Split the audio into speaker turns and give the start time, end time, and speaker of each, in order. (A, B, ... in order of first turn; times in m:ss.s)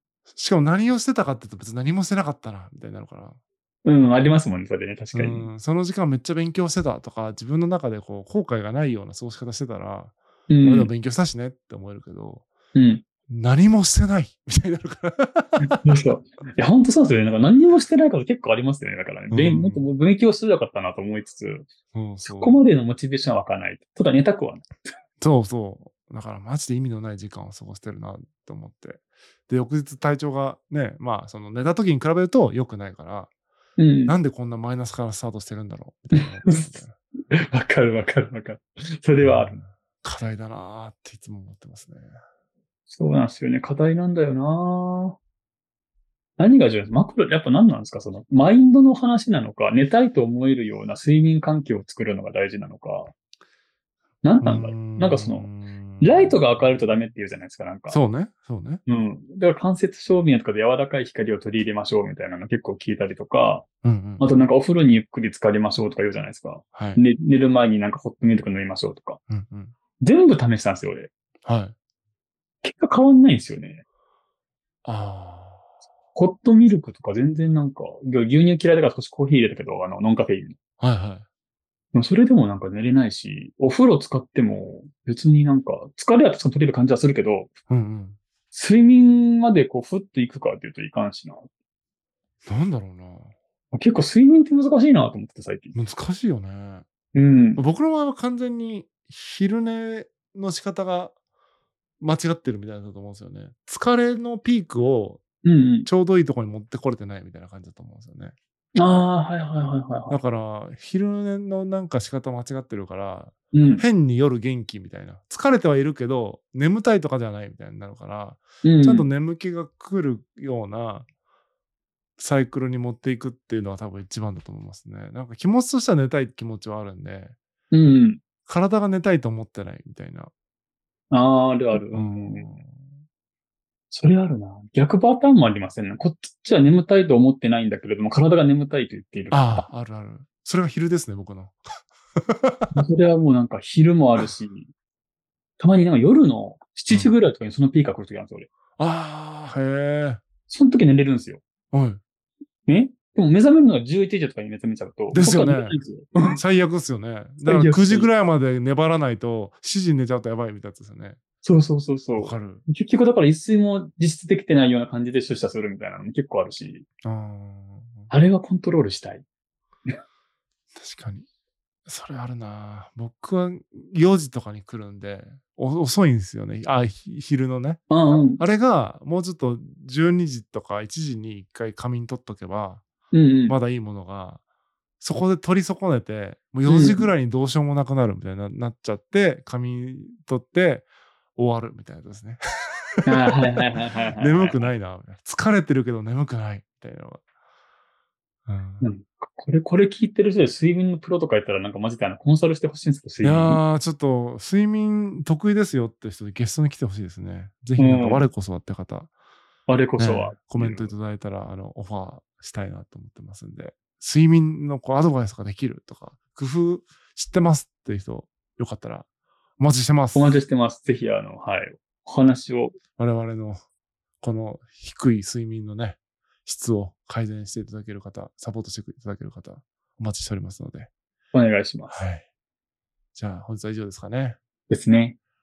0:00.3-0:03.4 A
0:03.8-0:05.5 B
0:05.1-0:12.5 A
0:10.5-0:10.9 B
0:12.8-0:13.0 B
0:13.3-0:15.8 A
0:15.6-0:21.7 B
0:19.3-0:19.8 A
0:21.9-0:22.6 A
0:22.2-0:24.7 B
0:25.2-0:33.3 A
0:33.8-0:34.1 B
0:34.1-0:37.0 A
0:36.1-0:36.7 B
0:37.3-0:39.6 B
0:39.2-0:42.1 A
0:42.9-0:45.2 B
0:46.4-0:53.1 B
0:54.2-0:55.5 B
0:54.4-0:56.5 A
0:56.0-0:58.0 B
0:57.9-0:58.8 A
0:58.9-1:03.7 B
1:03.8-1:04.2 A
1:04.2-1:09.2 B
1:06.7-1:07.0 A
1:09.3-1:09.7 A
1:10.0-1:11.1 B
1:11.4-1:11.8 A
1:12.6-1:13.8 B
1:14.8-1:15.6 A
1:16.2-1:20.6 B
1:20.8-1:21.2 A
1:21.9-1:27.5 B
1:27.7-1:28.2 A
1:28.5-1:31.5 B
1:32.5-1:33.3 A
1:33.7-1:35.8 B
1:35.7-1:36.9 A
1:37.1-1:37.6 B
1:37.6-1:41.1 A
1:42.0-1:45.2 A
1:45.4-1:45.9 B
1:45.9-1:48.4 A
1:48.8-1:50.2 B
1:50.1-2:01.1 A
1:53.5-1:53.8 B
1:58.6-1:59.1 B
2:02.2-2:07.4 A
2:07.7-2:08.2 B
2:08.5-2:10.3 A
2:11.1-2:12.5 B
2:11.9-2:13.0 A
2:13.9-2:19.7 B
2:19.3-2:21.6 A
2:22.2-2:22.7 A
2:22.7-2:24.7 B
2:25.6-2:28.5 B
2:28.8-2:30.2 A
2:30.5-2:31.4 B
2:31.7-2:32.0 A
2:32.7-2:36.4 B
2:35.1-2:35.8 A
2:36.4-2:41.2 A
2:37.4-2:38.1 B
2:41.4-2:46.9 B
2:42.2-2:42.6 A
2:47.0-2:48.1 A
2:48.1-2:49.2 B
2:50.8-2:51.3 A
2:51.9-2:57.8 A
2:57.9-2:58.4 B
2:58.4-3:02.8 A
3:03.1-3:03.6 B
3:03.5-3:04.4 A
3:05.0-3:12.4 A
3:06.7-3:07.1 B
3:13.0-3:13.6 A
3:13.1-3:14.7 B
3:14.2-3:17.2 A
3:18.5-3:18.9 A
3:18.8-3:23.6 B
3:23.2-3:29.1 A
3:27.8-3:28.3 B
3:29.7-3:30.9 B
3:30.0-3:39.1 A
3:39.6-3:40.4 A
3:40.1-3:42.8 B
3:43.0-3:43.6 A
3:44.2-3:50.9 A
3:51.3-3:51.9 B
3:51.9-3:52.2 A
3:53.2-3:54.4 A
3:54.7-3:55.2 B